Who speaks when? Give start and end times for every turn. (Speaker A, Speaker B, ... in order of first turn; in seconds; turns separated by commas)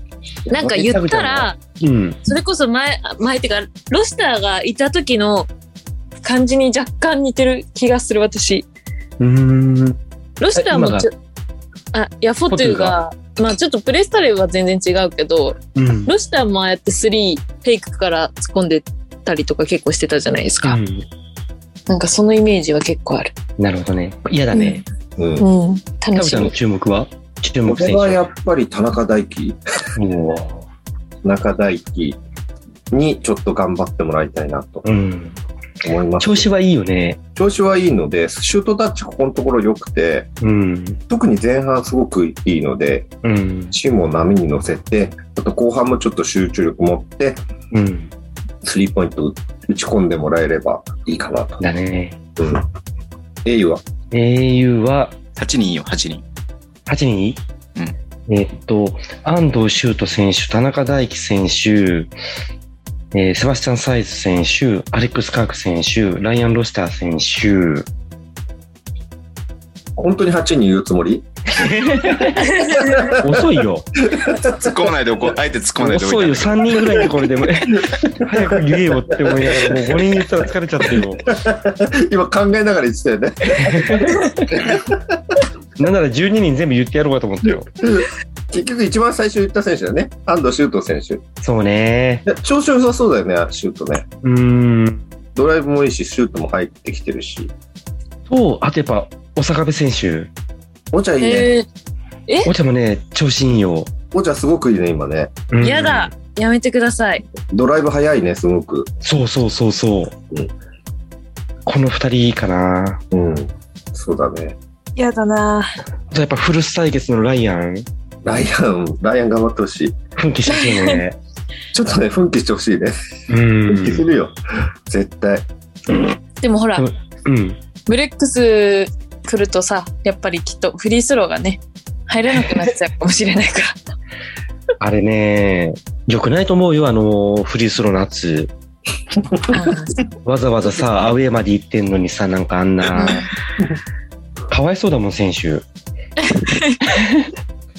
Speaker A: 0.5-1.6, Speaker B: 0.6-2.2, Speaker A: 2.2-5.5, Speaker A: 6.2-8.7, Speaker B: 9.2-10.0, Speaker A: 10.4-11.1, Speaker B: 10.5-11.1, Speaker A: 11.9-20.8, Speaker B: 12.5-12.9, Speaker B: 15.7-16.1, Speaker B: 20.6-21.1, Speaker A: 21.9-23.3, Speaker B: 23.6-24.8, Speaker A: 24.5-24.8, Speaker C: 25.2-25.4, Speaker A: 25.4-26.5, Speaker B: 26.1-28.3, Speaker C: 27.6-29.6, Speaker B: 29.9-30.6, Speaker C: 31.2-32.2, Speaker C: 32.9-34.8, Speaker B: 34.8-35.4, Speaker C: 35.8-36.5, Speaker B: 36.2-37.2, Speaker C: 37.4-40.3, Speaker B: 40.4-41.0, Speaker C: 41.1-43.1, Speaker B: 43.2-43.8, Speaker C: 43.7-47.4, Speaker B: 47.7-48.1, Speaker C: 48.6-51.6, Speaker B: 51.6-52.2, Speaker C: 52.4-52.7, Speaker C: 53.4-53.8, Speaker B: 54.1-55.1, Speaker D: 55.4-56.2, Speaker B: 56.9-57.4, Speaker B: 58.3-62.1, Speaker B: 63.1-67.9, Speaker C: 70.0-71.2, Speaker B: 71.5-72.6, Speaker C: 72.0-73.4, Speaker A: 72.5-73.0, Speaker B: 73.1-73.9, Speaker C: 74.0-74.7, Speaker D: 74.4-76.8, Speaker B: 75.8-81.3, Speaker C: 77.6-80.0, Speaker C: 80.9-85.4, Speaker B: 83.5-84.5, Speaker B: 85.8-87.7, Speaker C: 87.8-91.2, Speaker B: 91.4-92.2, Speaker C: 92.2-94.0, Speaker B: 94.2-95.0, Speaker C: 95.3-97.5, Speaker B: 98.3-100.3, Speaker C: 100.9-101.5, Speaker A: 101.2-101.7, Speaker B: 102.4-103.9, Speaker C: 104.1-105.3, Speaker B: 105.5-106.1, Speaker A: 105.6-107.2, Speaker C: 107.5-108.9, Speaker B: 109.0-110.1, Speaker B: 111.7-113.0, Speaker C: 113.1-114.6, Speaker A: 115.0-115.7, Speaker B: 116.1-117.8, Speaker C: 118.2-120.0, Speaker B: 120.2-121.2, Speaker A: 120.5-121.0, Speaker C: 121.7-123.0, Speaker B: 123.3-124.0, Speaker C: 123.7-124.4, Speaker C: 124.9-125.5, Speaker A: 126.4-126.8, Speaker B: 126.8-127.6, Speaker A: 127.9-133.8, Speaker B: 134.8-138.5, Speaker C: 139.3-139.5, Speaker A: 139.5-140.0, Speaker B: 140.2-143.2, Speaker A: 142.9-143.2, Speaker B: 144.5-145.6, Speaker A: 146.2-146.8, Speaker B: 146.8-147.3